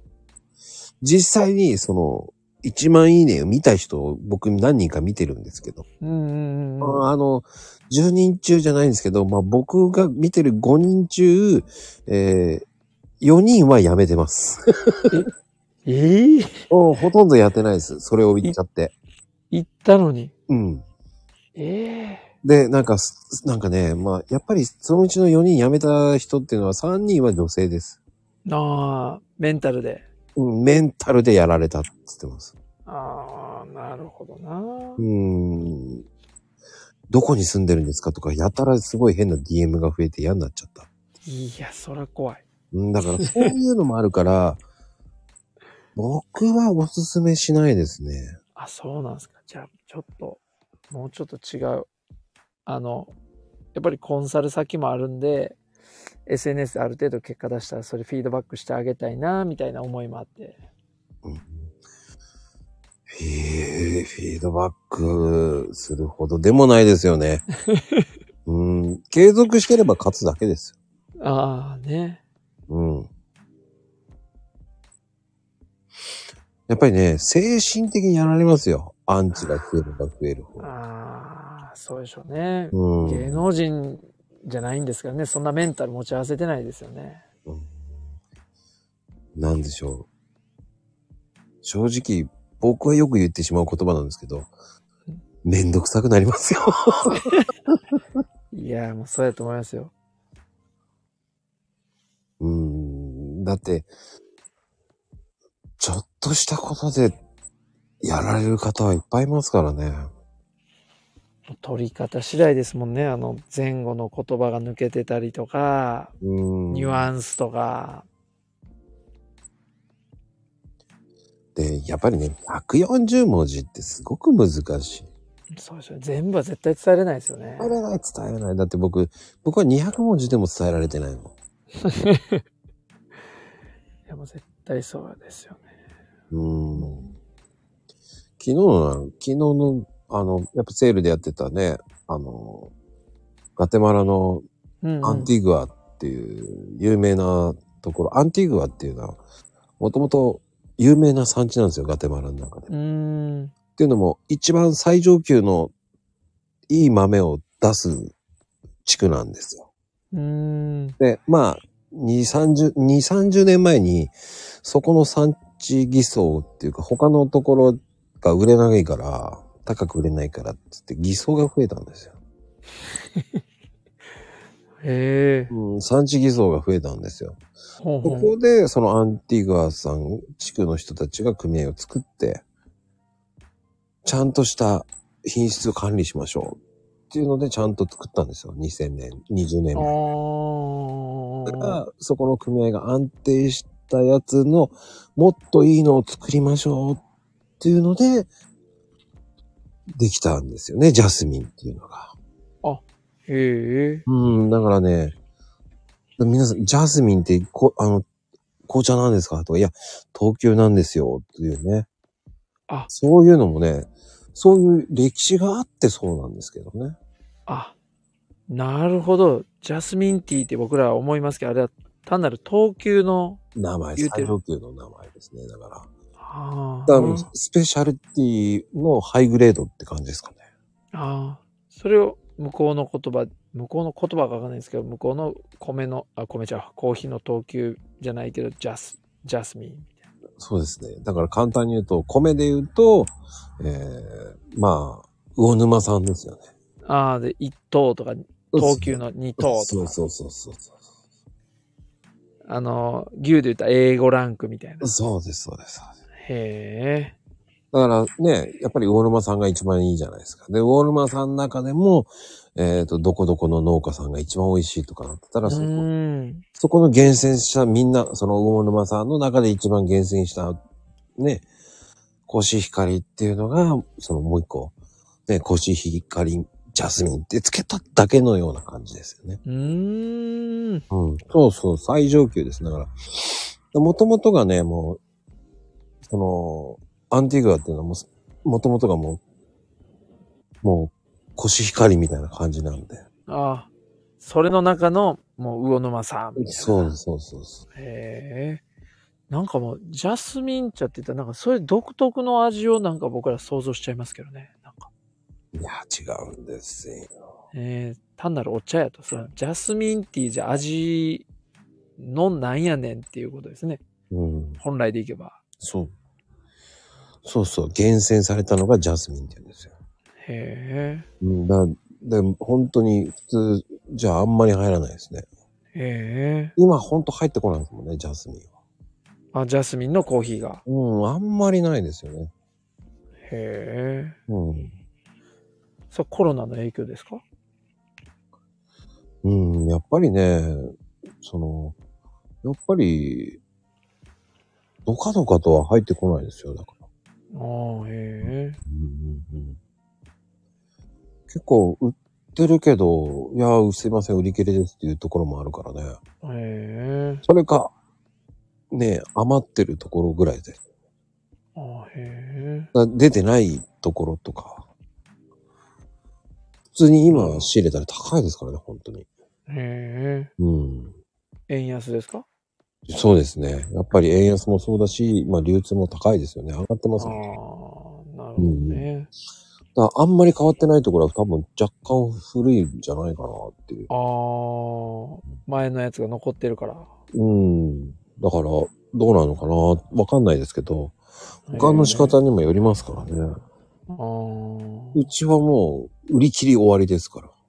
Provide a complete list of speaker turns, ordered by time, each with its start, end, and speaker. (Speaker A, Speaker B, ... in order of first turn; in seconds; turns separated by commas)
Speaker A: 1.0-5.8, Speaker B: 6.0-7.0, Speaker A: 6.8-12.7, Speaker A: 13.2-15.1, Speaker B: 15.8-16.6, Speaker A: 16.7-18.9, Speaker B: 19.5-20.3, Speaker A: 20.5-20.8, Speaker B: 21.6-22.3, Speaker A: 22.4-28.0, Speaker B: 28.4-30.1, Speaker A: 30.4-32.5, Speaker B: 32.9-35.0, Speaker A: 35.0-36.1, Speaker A: 37.1-40.9, Speaker B: 41.2-42.4, Speaker A: 42.7-44.6, Speaker B: 43.2-43.5, Speaker A: 46.0-48.4, Speaker B: 48.6-51.9, Speaker B: 52.7-53.1, Speaker B: 53.7-55.6, Speaker B: 56.3-60.6, Speaker A: 61.2-61.7, Speaker A: 63.1-67.4, Speaker B: 67.7-68.1, Speaker A: 68.5-70.7, Speaker B: 71.2-72.2, Speaker A: 72.7-73.1, Speaker A: 76.7-80.7, Speaker B: 80.6-87.2, Speaker A: 82.7-83.4, Speaker A: 87.5-87.9, Speaker A: 89.3-90.1, Speaker A: 91.6-94.5, Speaker A: 95.4-97.3, Speaker B: 97.2-97.5, Speaker B: 98.5-99.9, Speaker A: 102.4-103.9, Speaker A: 105.8-107.2, Speaker A: 108.0-110.1, Speaker B: 111.5-116.1, Speaker A: 116.2-117.1, Speaker B: 116.7-118.1, Speaker A: 121.6-125.1, Speaker B: 125.5-127.8, Speaker A: 127.6-131.3, Speaker B: 131.8-132.4, Speaker B: 134.1-135.7, Speaker A: 136.3-137.1, Speaker A: 138.4-142.7, Speaker A: 143.6-144.4, Speaker B: 144.8-145.3, Speaker A: 145.0-149.2, Speaker A: 149.8-152.7, Speaker B: 152.7-153.5, Speaker A: 153.8-155.7, Speaker A: 156.7-158.1, Speaker A: 158.8-159.7, Speaker B: 160.1-161.0, Speaker A: 161.0-172.2, Speaker B: 174.8-175.5, Speaker A: 175.5-177.4, Speaker B: 177.8-178.3, Speaker A: 178.0-182.4, Speaker A: 184.1-186.6, Speaker A: 187.1-189.9, Speaker B: 189.7-191.8, Speaker A: 191.5-197.0, Speaker A: 197.6-198.3, Speaker A: 199.9-202.2, Speaker B: 202.6-204.1, Speaker A: 204.1-205.2, Speaker A: 206.2-208.1, Speaker A: 208.7-211.9, Speaker A: 212.9-217.0, Speaker B: 217.5-217.8, Speaker B: 218.5-223.4, Speaker A: 223.6-225.9, Speaker B: 224.0-224.4, Speaker B: 226.2-227.3, Speaker A: 226.9-230.4, Speaker B: 230.9-240.1, Speaker A: 240.4-246.5, Speaker B: 246.8-250.0, Speaker A: 248.5-250.7, Speaker B: 252.4-254.9, Speaker A: 254.8-255.9, Speaker B: 256.2-257.2, Speaker A: 257.7-265.8, Speaker B: 265.4-266.4, Speaker A: 266.6-270.6, Speaker A: 271.2-271.5, Speaker A: 272.3-274.7, Speaker A: 275.3-279.4, Speaker B: 279.5-280.8, Speaker A: 280.9-285.0, Speaker A: 286.1-289.2, Speaker A: 290.6-293.1, Speaker B: 293.3-297.0, Speaker A: 296.4-297.6, Speaker B: 297.7-298.6, Speaker B: 299.3-304.9, Speaker A: 305.5-307.1, Speaker B: 307.5-311.3, Speaker B: 312.0-313.8, Speaker A: 314.1-314.6, Speaker B: 314.6-315.4, Speaker A: 315.6-315.9, Speaker A: 317.2-319.7, Speaker B: 320.2-321.1, Speaker A: 321.2-325.3, Speaker B: 325.7-326.6, Speaker A: 326.6-328.5, Speaker B: 329.3-330.6, Speaker A: 330.7-332.3, Speaker B: 333.2-334.2, Speaker A: 334.3-334.7, Speaker B: 335.9-337.2, Speaker A: 339.2-341.8, Speaker A: 342.4-343.4, Speaker A: 344.9-346.8, Speaker B: 347.3-348.6, Speaker A: 348.2-349.6, Speaker A: 351.3-356.0, Speaker B: 356.2-357.2, Speaker A: 357.3-357.7, Speaker A: 358.7-360.6, Speaker B: 361.6-362.7, Speaker A: 362.7-364.7, Speaker A: 366.7-369.1, Speaker B: 367.1-367.5, Speaker B: 369.5-370.3, Speaker A: 370.4-370.9, Speaker B: 371.5-372.3, Speaker A: 372.9-377.2, Speaker B: 377.0-379.1, Speaker A: 378.4-378.9, Speaker A: 379.8-383.9, Speaker B: 383.9-386.9, Speaker A: 387.1-391.0, Speaker B: 391.5-392.2, Speaker A: 391.5-393.4, Speaker B: 393.9-395.0, Speaker A: 394.9-397.3